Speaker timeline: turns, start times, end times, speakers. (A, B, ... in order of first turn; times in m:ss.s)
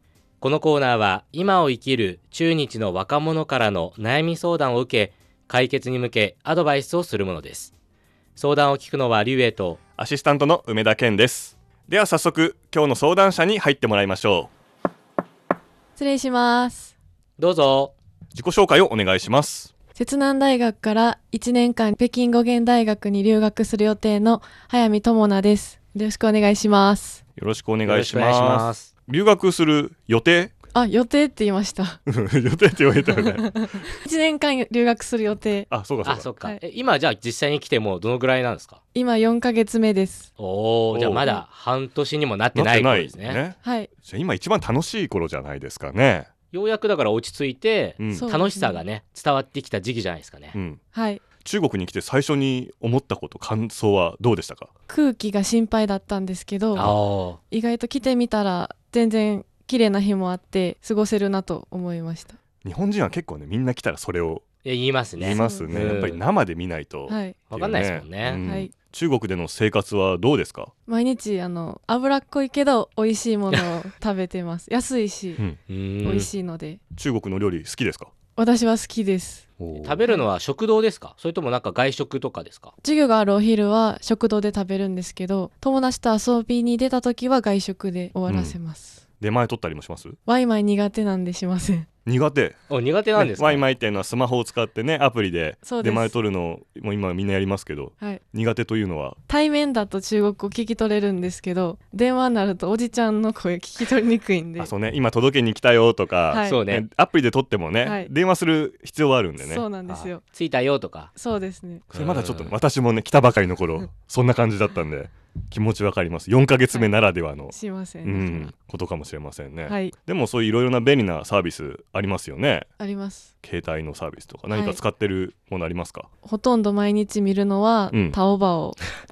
0:00.4-0:07.7 A
0:08.4-0:09.8 A
0:10.0-0:14.5 B
0:16.0-0:16.9 C
0:17.4-0:18.0 A
0:18.3-0:19.7 B
0:20.0-0:27.2 C
0:27.4-0:30.5 B
0:27.8-0:28.9 A
0:30.7-0:32.0 C
0:32.0-0:33.9 B
0:33.4-0:35.7 C
0:35.7-0:36.3 B
0:36.0-0:38.8 A
0:38.9-0:40.3 C
0:40.4-0:43.4 A
0:40.9-0:41.3 B
0:41.2-0:41.4 C
0:42.5-0:46.3 B
0:43.6-0:43.9 C
0:46.5-0:50.6 A
0:48.0-0:48.3 B
0:48.1-0:48.8 C
0:50.5-0:50.8 B
0:50.9-0:51.2 C
0:51.4-0:54.7 B
0:54.9-0:57.0 C
0:56.7-0:57.4 A
0:57.5-1:02.4 C
1:02.6-1:04.4 B
1:04.6-1:06.2 A
1:05.2-1:10.7 B
1:05.2-1:05.7 C
1:07.1-1:07.4 C
1:07.5-1:08.4 A
1:08.4-1:08.7 C
1:10.9-1:15.4 C
1:15.7-1:16.3 A
1:16.0-1:16.8 C
1:17.0-1:18.1 B
1:18.4-1:19.5 C
1:19.6-1:20.0 B
1:19.8-1:22.7 A
1:22.8-1:29.0 C
1:28.3-1:28.6 B
1:29.2-1:30.2 B
1:30.2-1:31.9 C
1:32.1-1:32.6 B
1:32.7-1:33.6 A
1:33.2-1:39.2 B
1:35.6-1:36.2 C
1:39.3-1:44.7 C
1:44.6-1:49.7 B
1:46.3-1:46.6 C
1:46.4-1:46.8 A
1:47.8-1:48.1 C
1:49.4-1:50.2 C
1:49.8-1:51.1 A
1:51.2-1:51.8 C
1:51.9-1:52.6 A
1:51.9-2:02.7 B
1:57.5-1:58.5 C
1:59.7-1:59.9 C
2:02.8-2:03.3 C
2:03.4-2:06.1 B
2:04.5-2:04.8 C
2:06.2-2:08.8 C
2:07.9-2:08.2 B